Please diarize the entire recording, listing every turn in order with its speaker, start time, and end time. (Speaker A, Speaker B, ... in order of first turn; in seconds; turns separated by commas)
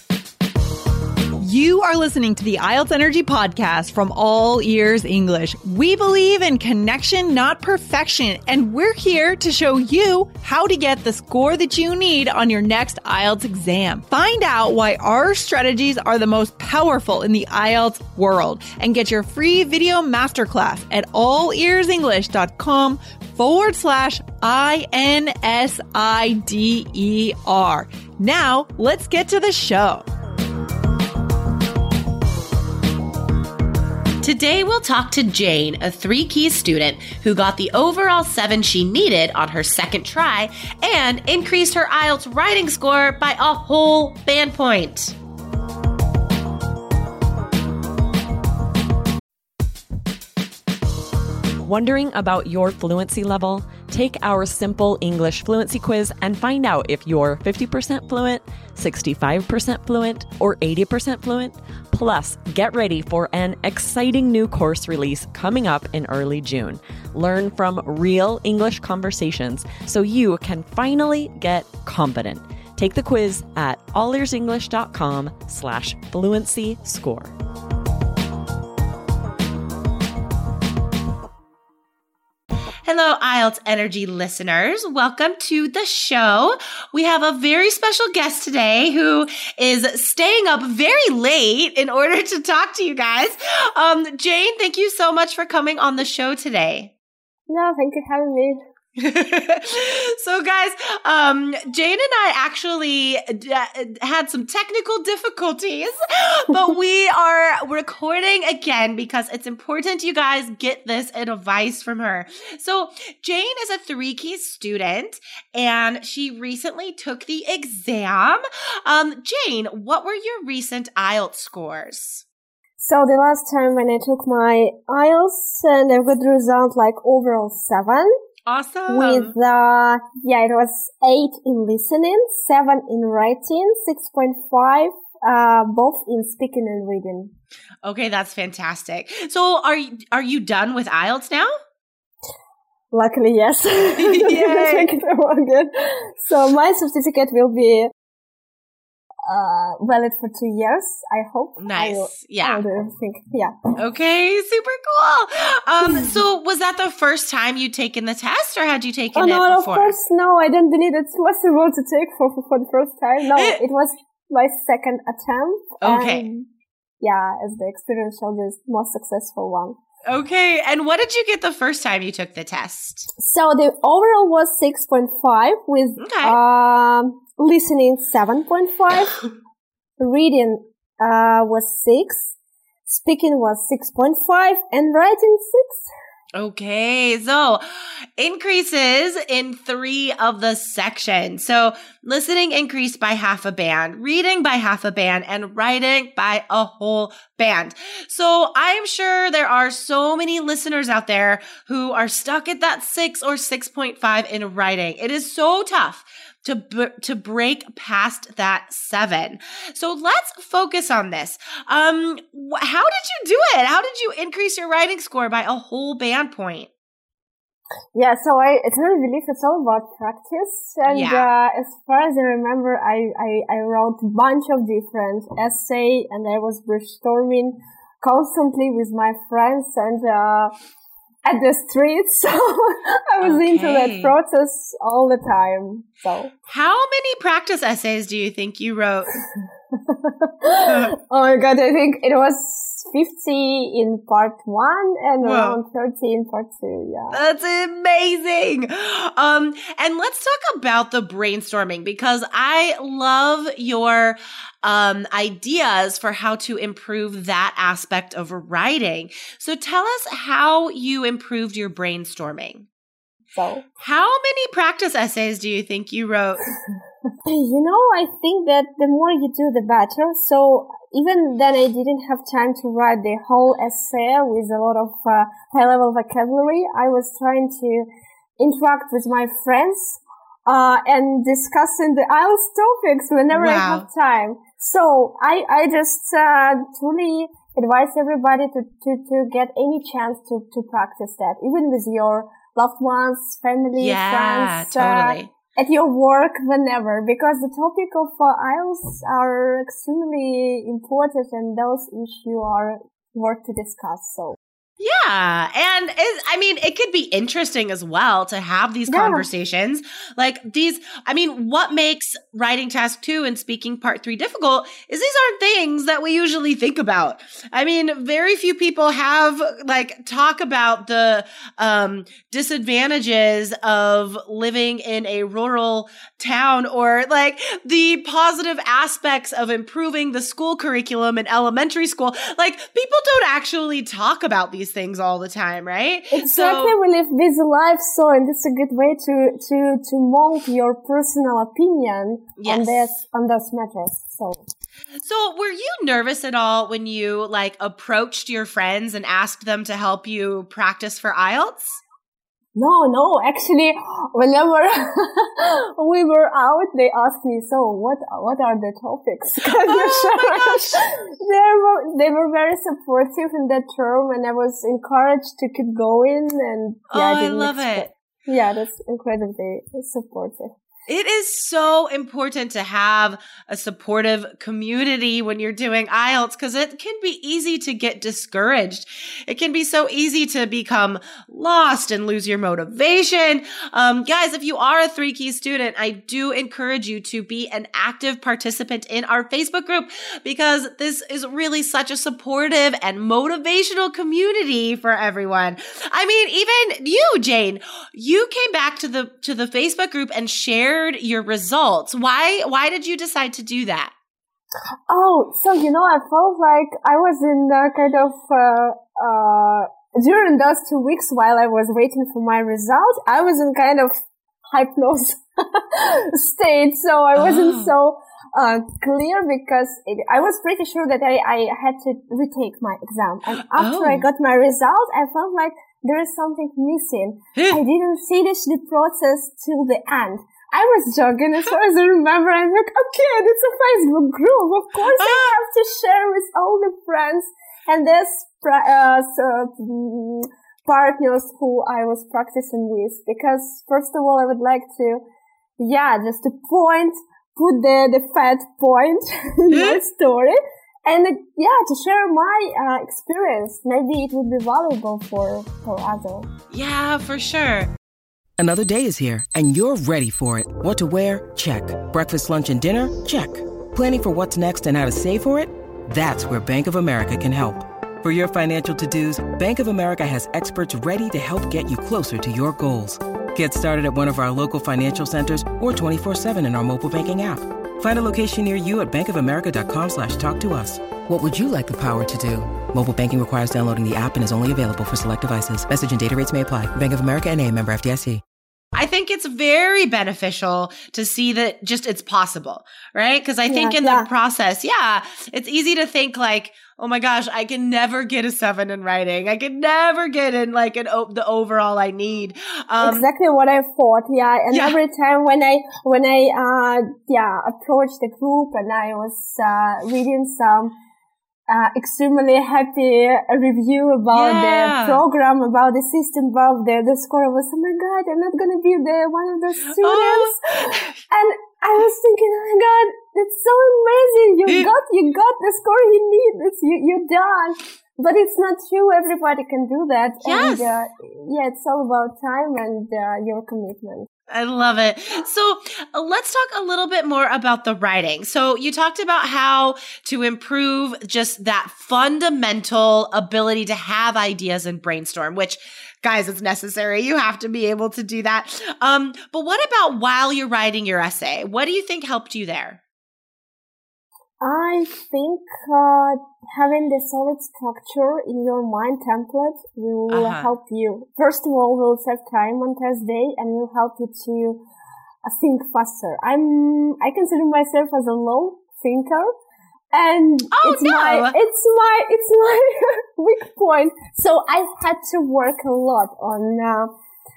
Speaker A: 1.4-30.1, Speaker B: 34.2-45.1, Speaker C: 51.6-77.3, Speaker B: 82.9-96.9, Speaker D: 97.5-98.6, Speaker B: 99.0-122.2, Speaker D: 122.8-128.1, Speaker B: 128.5-129.3, Speaker D: 128.9-137.3, Speaker B: 137.8-141.5, Speaker D: 142.9-147.9, Speaker B: 144.0-144.9, Speaker D: 149.3-153.5, Speaker B: 151.6-152.6, Speaker B: 153.8-160.0, Speaker D: 155.8-156.1, Speaker D: 159.1-166.5, Speaker B: 165.8-166.3, Speaker D: 167.0-169.8, Speaker B: 170.1-173.1, Speaker D: 173.2-179.3, Speaker B: 176.0-176.4, Speaker D: 180.0-182.4, Speaker D: 182.9-185.9, Speaker B: 186.3-187.6, Speaker B: 188.2-216.7, Speaker D: 217.9-230.5, Speaker B: 220.9-221.3, Speaker D: 231.2-236.3, Speaker B: 233.2-234.2, Speaker B: 236.5-239.1, Speaker D: 239.9-247.2, Speaker B: 240.6-240.9, Speaker B: 245.2-245.6, Speaker B: 247.1-262.7, Speaker D: 263.3-263.6, Speaker B: 263.8-266.4, Speaker D: 267.3-277.9, Speaker D: 278.4-304.4, Speaker B: 283.3-283.9, Speaker B: 293.8-295.3, Speaker B: 304.8-336.8, Speaker D: 308.9-309.3, Speaker D: 336.1-344.4, Speaker B: 342.4-343.0, Speaker B: 345.0-351.8, Speaker D: 352.6-370.5, Speaker B: 359.6-360.8, Speaker B: 366.9-367.9, Speaker B: 370.9-403.9, Speaker D: 404.9-413.9, Speaker D: 414.5-445.0, Speaker B: 417.1-417.7, Speaker B: 423.6-424.1, Speaker B: 434.9-435.4, Speaker D: 445.6-456.3, Speaker B: 449.5-449.8, Speaker B: 456.5-457.7, Speaker E: 458.4-488.2, Speaker B: 488.8-503.1, Speaker D: 493.5-494.1, Speaker D: 502.8-510.7, Speaker B: 504.5-504.8, Speaker D: 511.5-534.1, Speaker B: 514.1-515.0, Speaker B: 519.7-521.0, Speaker B: 530.2-530.8, Speaker B: 534.3-552.8, Speaker D: 554.4-564.6, Speaker B: 560.1-560.5, Speaker D: 565.3-569.3, Speaker D: 569.9-576.9, Speaker B: 570.5-571.4